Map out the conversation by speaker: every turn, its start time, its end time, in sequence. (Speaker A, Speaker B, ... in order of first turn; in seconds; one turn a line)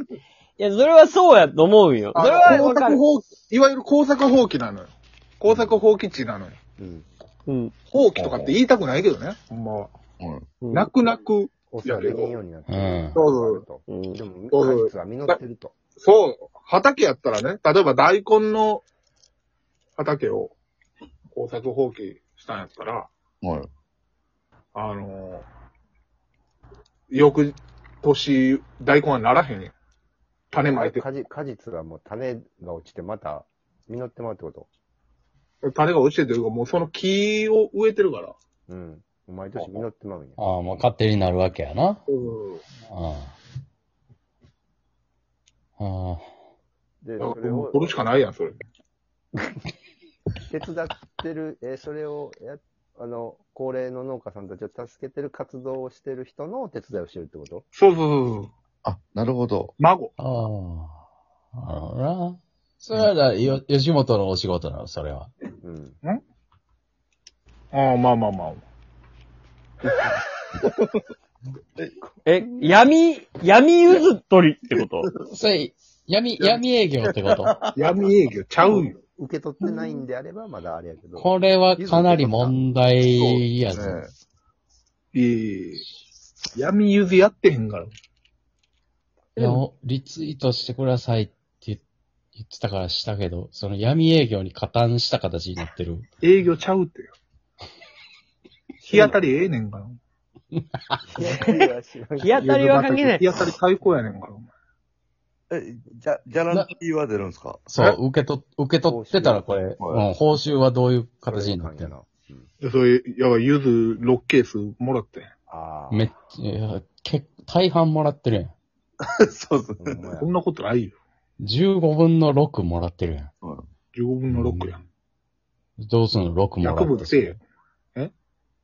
Speaker A: 0.6-3.0
Speaker B: 2.1-6.6
Speaker C: 5.5-5.8
Speaker C: 6.8-7.1
Speaker A: 7.5-7.8
Speaker B: 7.9-9.9
Speaker D: 8.2-8.6
Speaker D: 10.2-10.6
Speaker A: 10.6-10.9
Speaker B: 10.7-12.4
Speaker C: 11.7-15.7
Speaker E: 12.7-13.2
Speaker B: 13.1-13.6
Speaker A: 13.9-14.2
Speaker B: 14.5-15.4
Speaker B: 16.0-18.8
Speaker B: 20.0-20.6
Speaker B: 21.4-23.1
Speaker D: 23.4-23.7
Speaker B: 24.8-25.5
Speaker B: 27.1-29.7
Speaker B: 30.5-31.1
Speaker C: 30.6-34.7
Speaker B: 35.6-38.4
Speaker C: 38.7-40.4
Speaker E: 40.4-42.0
Speaker B: 42.1-42.6
Speaker E: 42.9-43.4
Speaker E: 45.8-46.2
Speaker C: 47.0-48.0
Speaker B: 47.2-48.6
Speaker C: 50.5-57.6
Speaker B: 57.7-58.5
Speaker D: 58.8-59.7
Speaker B: 59.8-60.1
Speaker E: 60.2-61.0
Speaker E: 61.5-65.3
Speaker C: 65.6-66.0
Speaker B: 67.7-68.6
Speaker D: 70.6-71.0
Speaker A: 72.3-75.1
Speaker D: 74.7-75.3
Speaker E: 75.3-77.5
Speaker D: 76.4-78.1
Speaker B: 77.8-79.0
Speaker C: 79.1-82.6
Speaker E: 81.2-84.0
Speaker D: 83.1-84.1
Speaker B: 85.1-85.8
Speaker B: 86.5-87.9
Speaker E: 89.4-91.8
Speaker E: 92.4-96.1
Speaker B: 96.2-97.1
Speaker B: 98.8-100.0
Speaker E: 100.6-101.0
Speaker C: 101.1-102.4
Speaker A: 101.3-101.6
Speaker A: 102.2-103.4
Speaker B: 102.4-104.5
Speaker D: 105.5-107.7
Speaker E: 107.7-111.9
Speaker C: 108.8-109.5
Speaker D: 109.8-110.1
Speaker C: 111.3-112.5
Speaker B: 112.6-115.3
Speaker C: 115.5-116.1
Speaker E: 115.9-118.5
Speaker D: 119.0-120.1
Speaker C: 119.8-120.3
Speaker B: 120.2-121.0
Speaker E: 121.4-123.3
Speaker D: 123.4-123.7
Speaker B: 123.9-124.8
Speaker E: 124.3-124.8
Speaker E: 125.8-127.4
Speaker B: 126.6-127.4